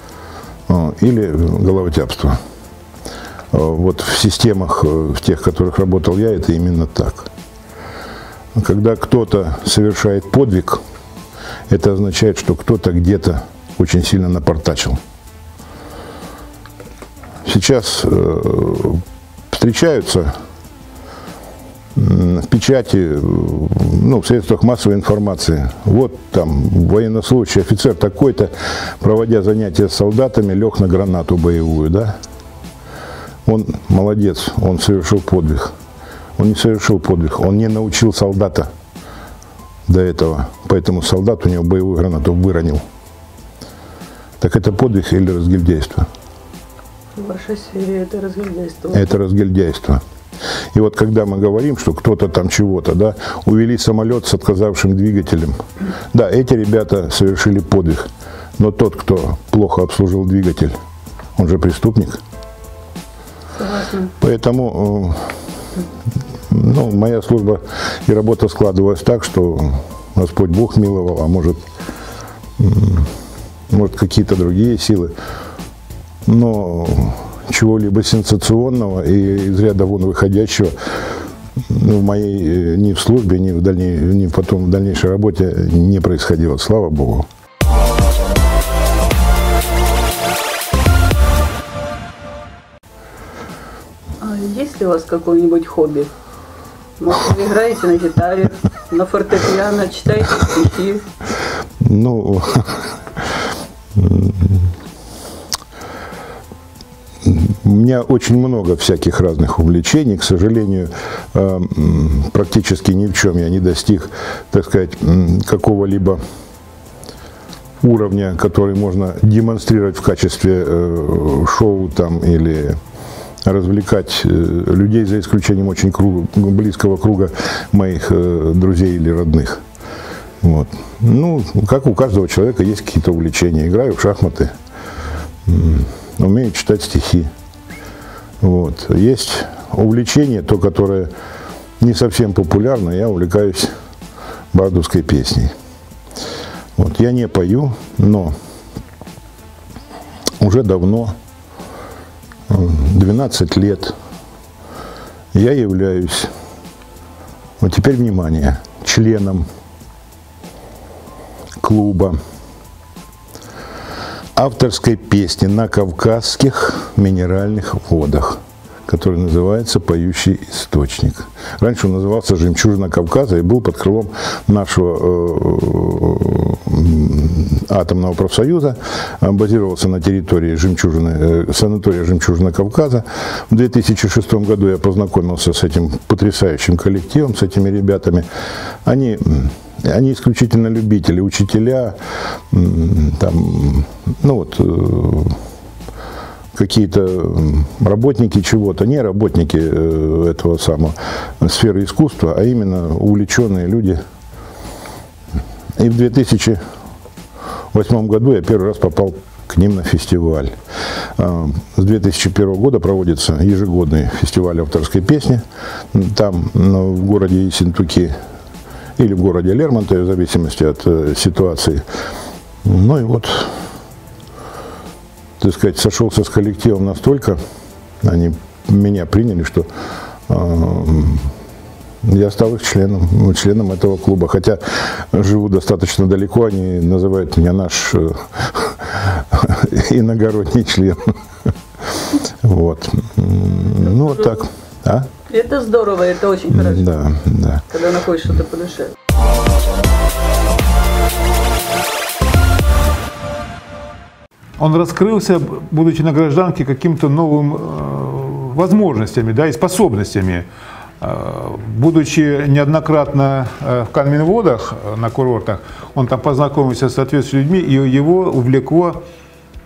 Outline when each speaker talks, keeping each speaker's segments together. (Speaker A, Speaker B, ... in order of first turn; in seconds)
Speaker A: 0.7-2.4, 3.5-7.3, 8.5-10.8, 11.7-15.0, 17.4-20.4, 21.9-32.1, 33.4-35.7, 36.4-38.7, 39.9-42.8, 44.4-46.1, 48.9-50.0, 50.7-60.8, 61.4-62.2, 64.2-65.4, 66.5-71.6, 72.6-73.1, 73.7-75.1, 76.2-87.3, 101.8-103.2, 103.9-104.7, 107.2-116.2, 117.8-122.8, 123.4-129.6, 130.4-134.5, 135.4-137.3, 138.4-141.1, 141.8-143.7, 144.5-145.5, 146.8-148.3, 150.4-151.1, 152.5-153.9, 155.3-156.3, 157.6-159.4, 161.6-162.2, 164.3-188.3, 188.8-192.0, 192.5-195.4, 196.5-204.0, 205.8-206.6, 207.7-210.6, 211.1-218.2, 219.0-221.8, 222.6-223.6, 225.4-227.4, 228.0-229.7, 230.3-231.3, 232.0-245.1, 246.5-247.7
Speaker B: 47.1-49.0, 63.5-64.1, 94.2-96.1, 97.0-101.0, 245.3-246.9, 247.7-248.9
Speaker C: 254.6-260.5, 261.0-269.0